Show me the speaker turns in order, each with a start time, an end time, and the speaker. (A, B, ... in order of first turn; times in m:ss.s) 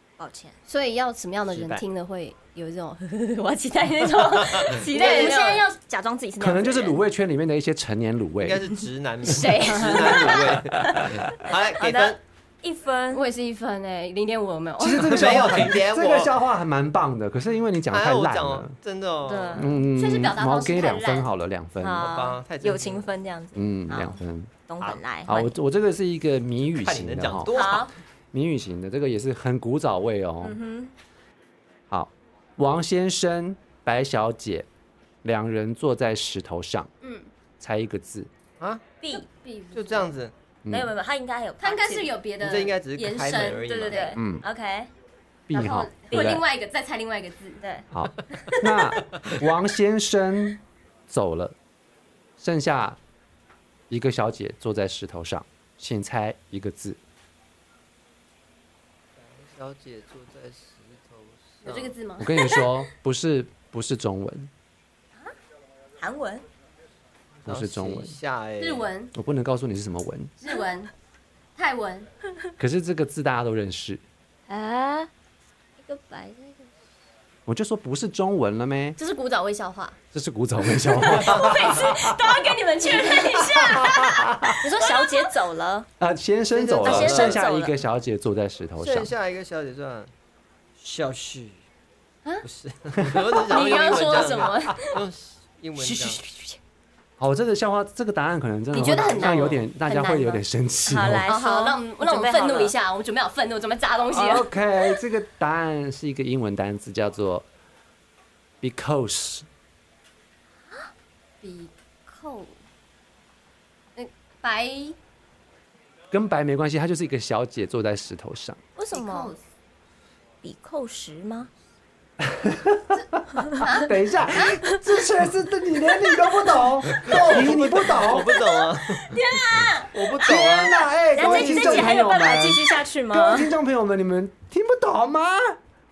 0:00.2-0:00.6 A
0:00.7-0:05.7 B
0:01.5-0:01.8 C
0:04.4-0:05.4 C
0:04.7-0:07.0 A
0:06.4-0:08.7 D
0:08.4-0:12.2 C
0:09.2-0:11.0 B
0:09.7-0:10.8 A
0:10.7-0:11.2 D
0:11.5-0:13.3 A
0:13.1-0:15.5 B
0:14.8-0:18.7 D
0:15.0-0:16.3 C
0:17.9-0:19.7 C
0:19.2-0:19.8 A
0:19.6-0:22.1 D
0:19.9-0:21.3 B
0:21.8-0:25.5 A
0:22.0-0:23.1 C
0:23.6-0:24.5 D
0:25.2-0:27.5 D
0:26.8-0:27.9 C
0:27.5-0:27.9 A
0:28.3-0:30.6 D
0:30.4-0:30.9 A
0:31.9-0:34.7 D
0:35.2-0:36.9 D
0:37.0-0:37.3 B
0:37.6-0:38.3 D
0:39.0-0:39.3 A
0:39.1-0:40.1 B
0:39.7-0:40.3 C
0:40.6-0:40.9 D
0:40.7-0:42.2 A
0:41.6-0:44.2 B
0:42.4-0:44.2 C
0:43.7-0:44.9 A
0:44.2-0:44.4 D
0:45.5-0:46.4 D
0:45.5-0:47.6 B
0:46.1-0:46.4 A
0:47.6-0:47.9 A
0:47.9-0:51.6 D
0:52.4-0:53.0 D
0:53.9-0:57.0 D
0:59.2-1:02.0 C
1:01.6-1:02.6 B
1:02.2-1:04.5 D
1:06.0-1:06.4 A
1:07.4-1:08.9 C
1:07.5-1:08.2 D
1:08.6-1:09.1 B
1:09.1-1:10.3 D
1:10.4-1:10.9 B
1:11.6-1:12.1 B
1:12.6-1:14.0 D
1:14.5-1:15.1 A
1:15.8-1:16.7 A
1:17.5-1:19.0 D
1:19.0-1:20.0 B
1:20.1-1:22.4 D
1:20.9-1:25.3 B
1:21.1-1:23.8 A
1:23.5-1:24.6 D
1:24.6-1:25.9 A
1:26.0-1:29.1 D
1:26.5-1:27.4 C
1:26.8-1:27.8 A
1:28.8-1:30.1 C
1:30.8-1:31.6 C
1:32.4-1:36.2 C
1:33.0-1:33.3 D
1:33.4-1:35.0 B
1:36.0-1:36.6 A
1:37.2-1:41.3 D
1:38.7-1:40.4 B
1:39.0-1:39.6 C
1:40.9-1:42.7 A
1:41.3-1:44.5 B
1:44.1-1:47.5 D
1:48.6-1:49.5 D
1:51.4-1:52.6 B
1:54.0-1:55.0 B
1:56.1-1:58.6 D
1:58.8-1:59.3 A
1:58.9-1:59.4 B
2:00.4-2:01.5 A
2:02.2-2:08.4 D
2:03.6-2:04.6 B
2:06.9-2:11.9 C
2:08.3-2:13.5 A
2:10.2-2:15.6 D
2:11.3-2:11.8 B